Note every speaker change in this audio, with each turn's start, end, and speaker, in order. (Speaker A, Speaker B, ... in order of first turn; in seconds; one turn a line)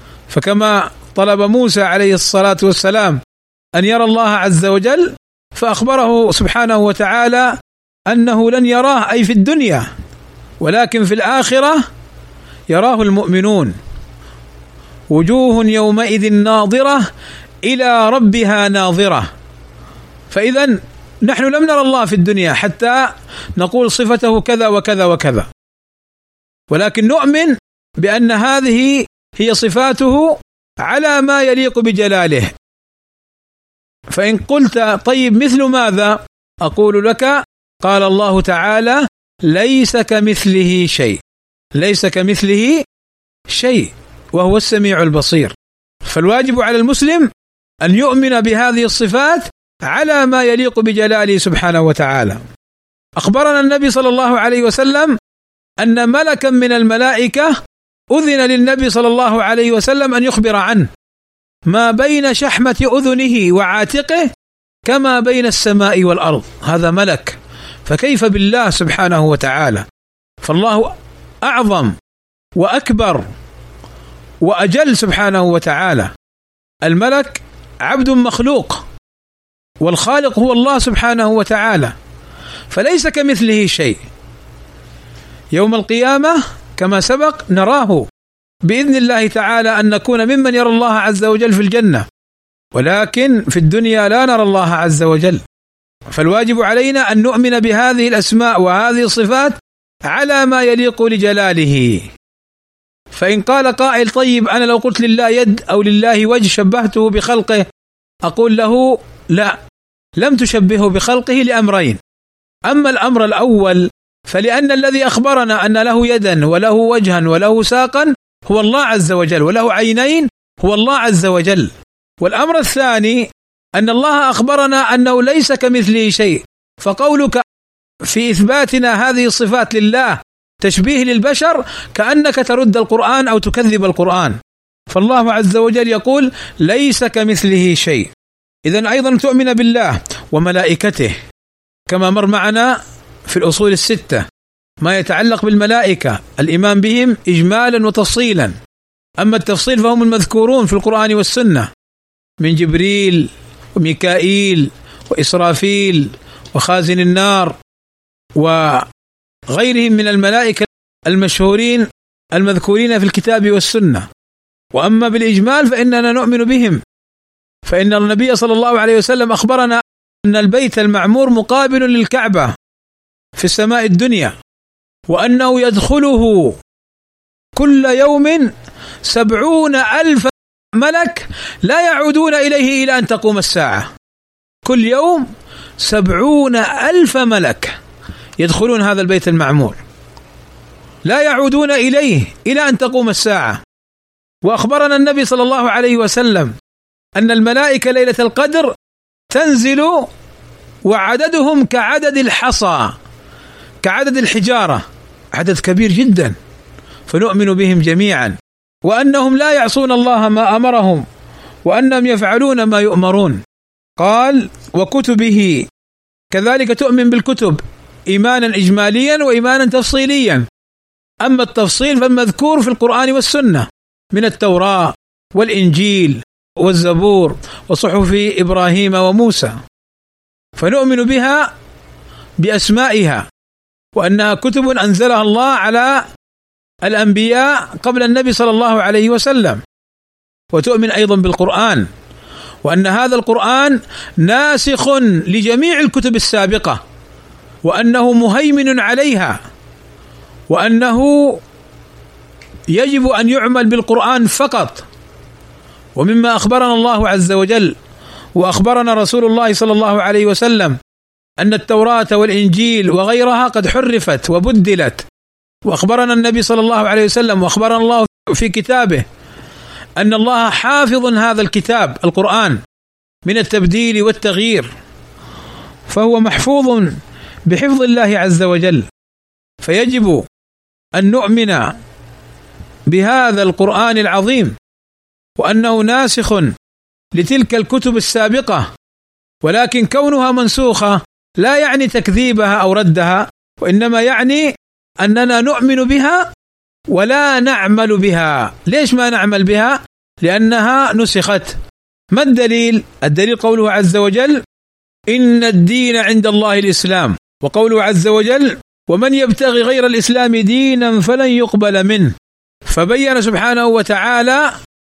Speaker A: 0.3-3.2
Speaker A: 3.8-7.6
Speaker A: 8.1-9.9
Speaker A: 10.6-11.8
Speaker A: 12.7-13.8
Speaker A: 15.1-17.1
Speaker A: 17.6-19.3
Speaker A: 20.3-25.5
Speaker A: 26.7-32.5
Speaker A: 34.1-41.2
Speaker A: 41.8-42.8
Speaker A: 43.5-47.3
Speaker A: 47.8-52.5
Speaker A: 53.2-55.2
Speaker A: 55.8-57.6
Speaker A: 58.1-60.9
Speaker A: 61.7-64.3
Speaker A: 64.9-69.9
Speaker A: 70.4-72.0
Speaker A: 72.6-73.3
Speaker A: 74.4-76.1
Speaker A: 76.8-78.8
Speaker A: 79.8-82.0
Speaker A: 82.7-84.0
Speaker A: 85.5-88.1
Speaker A: 88.6-92.1
Speaker A: 92.7-95.4
Speaker A: 96.1-102.1
Speaker A: 103.1-107.7
Speaker A: 108.2-109.6
Speaker A: 110.2-112.0
Speaker A: 112.7-127.4
Speaker A: 128.0-134.4
Speaker A: 134.9-138.1
Speaker A: 138.7-141.2
Speaker A: 141.9-144.3
Speaker A: 144.8-148.6
Speaker A: 149.2-151.7
Speaker A: 152.4-157.6
Speaker A: 158.4-158.9
Speaker A: 159.5-164.1
Speaker A: 164.7-166.8
Speaker A: 167.7-172.5
Speaker A: 173.4-174.4
Speaker A: 175.1-176.6
Speaker A: 177.6-178.5
Speaker A: 179.1-183.9
Speaker A: 184.6-185.3
Speaker A: 185.8-187.8
Speaker A: 188.4-189.8
Speaker A: 191.1-193.6
Speaker A: 194.4-196.5
Speaker A: 197.2-198.7
Speaker A: 199.3-200.1
Speaker A: 200.9-202.9
Speaker A: 203.8-206.3
Speaker A: 207.1-211.1
Speaker A: 211.7-213.4
Speaker A: 214.0-215.7
Speaker A: 216.3-220.5
Speaker A: 221.2-229.6
Speaker A: 230.6-231.5
Speaker A: 232.4-233.3
Speaker A: 234.0-236.1
Speaker A: 236.8-239.6
Speaker A: 240.5-241.9
Speaker A: 242.6-246.8
Speaker A: 247.6-249.4
Speaker A: 250.5-251.4
Speaker A: 252.7-254.9
Speaker A: 256.0-257.8
Speaker A: 258.4-260.8
Speaker A: 261.4-265.1
Speaker A: 265.7-269.1
Speaker A: 270.0-272.6
Speaker A: 273.2-274.7
Speaker A: 275.9-278.9
Speaker A: 279.6-280.2
Speaker A: 281.0-281.8
Speaker A: 282.9-284.6
Speaker A: 285.4-286.5
Speaker A: 287.1-288.7
Speaker A: 289.4-296.3
Speaker A: 296.9-301.6
Speaker A: 302.1-304.4
Speaker A: 305.1-312.1
Speaker A: 312.7-314.6